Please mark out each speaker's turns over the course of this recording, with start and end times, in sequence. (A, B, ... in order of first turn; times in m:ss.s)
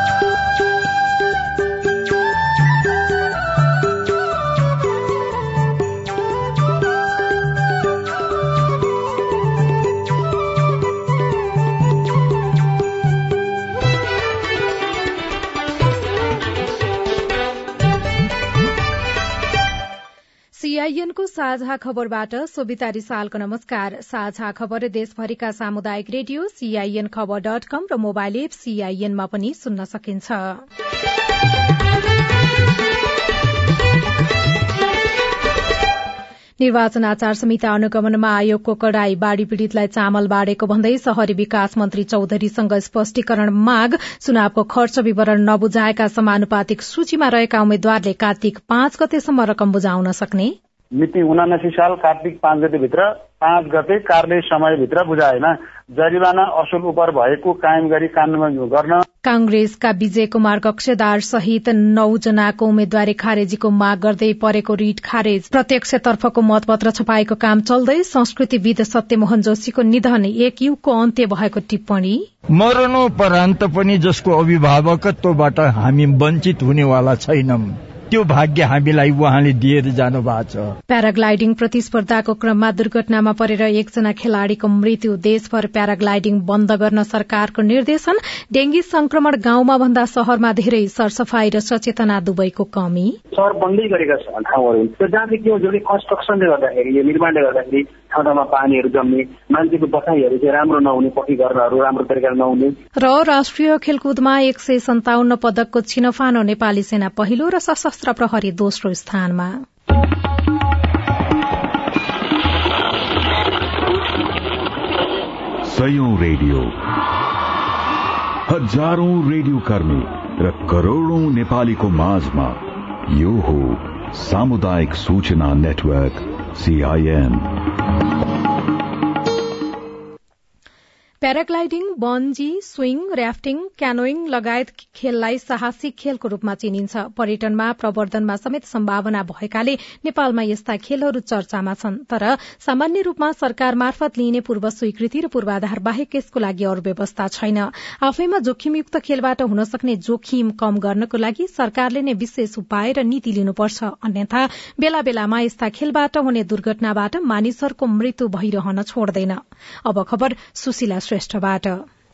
0:20.6-0:30.6 A
0:36.6-0:50.5 A
0:51.0-0:59.0 B
0:59.2-1:12.2 A
1:12.6-1:20.7 C
1:20.9-1:33.2 A
1:33.3-1:42.7 D
1:43.0-1:49.6 A
1:55.6-1:56.7 E
1:58.5-2:07.5 E
2:11.2-2:41.8 A